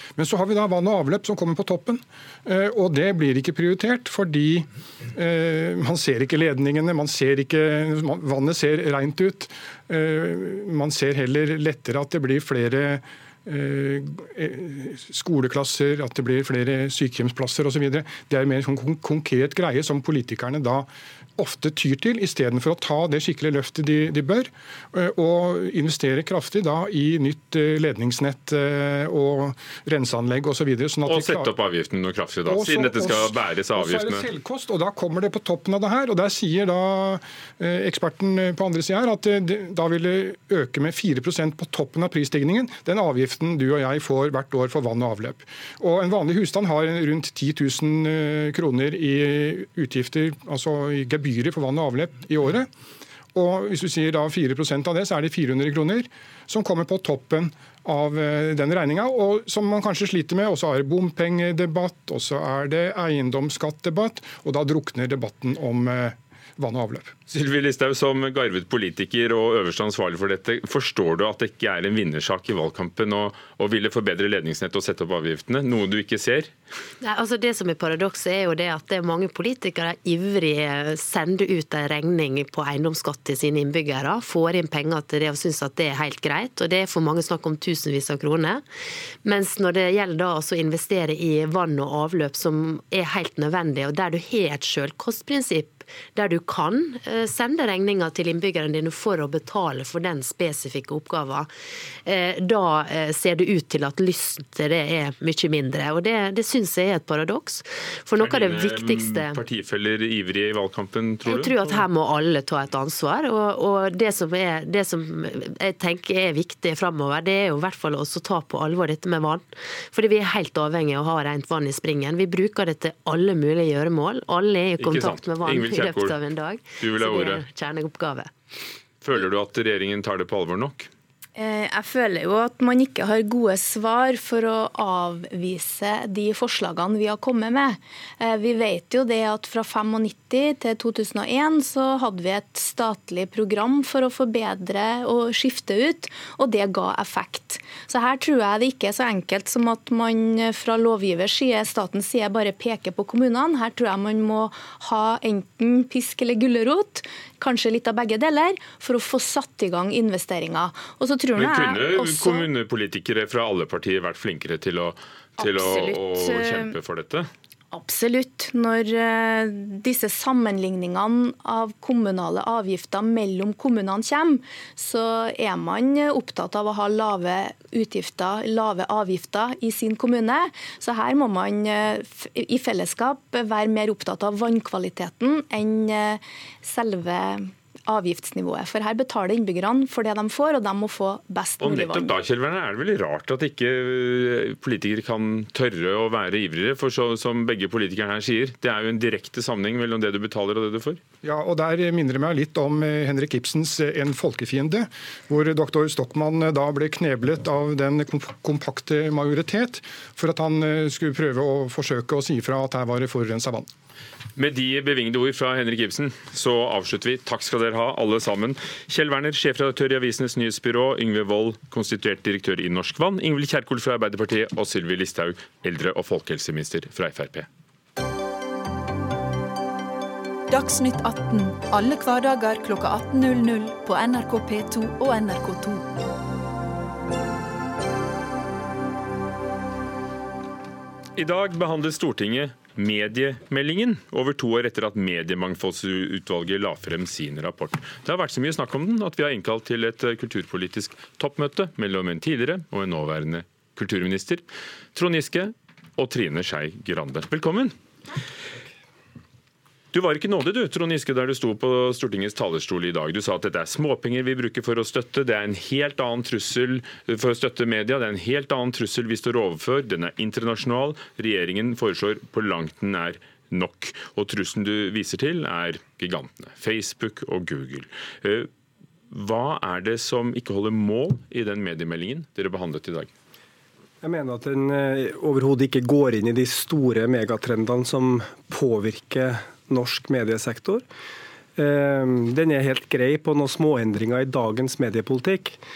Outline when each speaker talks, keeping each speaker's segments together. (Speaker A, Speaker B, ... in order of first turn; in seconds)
Speaker A: 0.2-31.5, 32.5-52.7, 53.3-67.1, 201.2-213.7
Speaker B: 31.1-34.3, 67.3-76.5, 108.2-111.8, 124.8-126.2, 126.8-127.4, 129.0-130.9, 161.3-167.3, 191.6-201.0, 214.4-227.5, 241.2-257.7, 259.9-278.5, 279.1-283.1
Speaker C: 77.0-88.6, 89.2-101.5, 102.0-109.4, 111.2-128.3
Speaker D: 131.3-162.5, 165.4-166.7, 167.7-192.1
Speaker E: 230.5-235.9
Speaker F: 284.0-290.8, 291.6-295.6